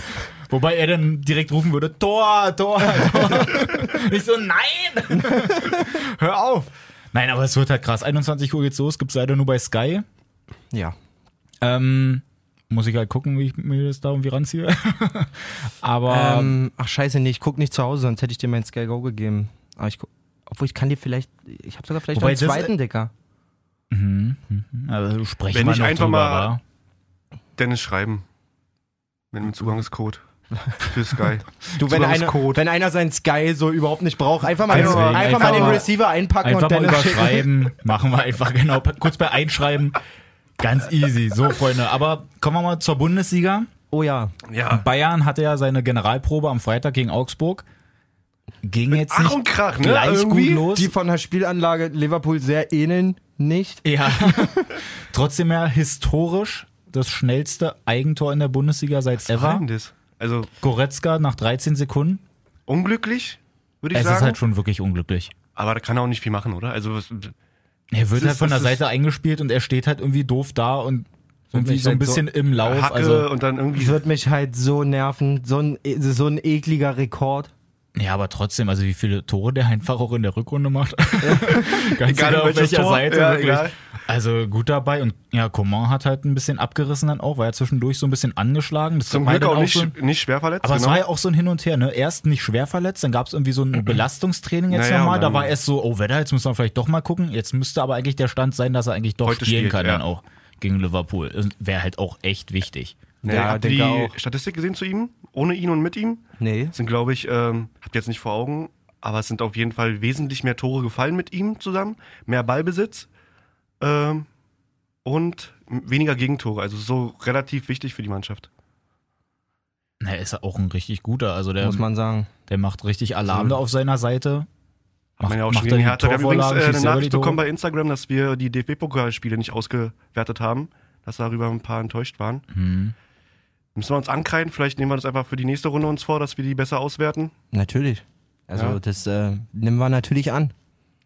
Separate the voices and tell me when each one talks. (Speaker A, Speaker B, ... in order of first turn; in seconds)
Speaker A: 0.5-10.1, 11.6-16.6, 22.1-22.7, 23.9-26.6, 34.7-35.8, 36.4-40.0, 40.6-43.7, 44.7-47.6, 48.6-50.9, 53.8-59.6, 60.6-62.2, 63.9-65.3, 67.9-73.3, 77.9-89.9, 90.6-103.1, 120.0-121.8, 122.5-124.5, 125.2-127.4, 132.5-132.9
Speaker B: 2.9-3.9, 5.1-5.8, 16.1-23.1, 31.8-37.5, 43.9-44.3, 50.6-54.7, 68.5-68.7, 71.5-72.3, 73.7-77.5, 81.2-81.6, 103.2-104.1, 106.4-106.7, 121.6-122.3, 137.5-140.5
Speaker C: 25.5-26.5, 27.6-28.2, 29.3-30.2, 30.8-32.6, 34.7-35.9, 44.5-44.8, 48.9-50.7, 59.2-60.5, 62.7-64.4, 65.5-67.3, 72.6-74.0, 81.7-83.7, 89.1-91.0, 94.7-95.5, 99.2-100.0, 103.2-113.1, 113.8-114.3, 115.0-118.5, 125.2-132.4, 133.7-137.3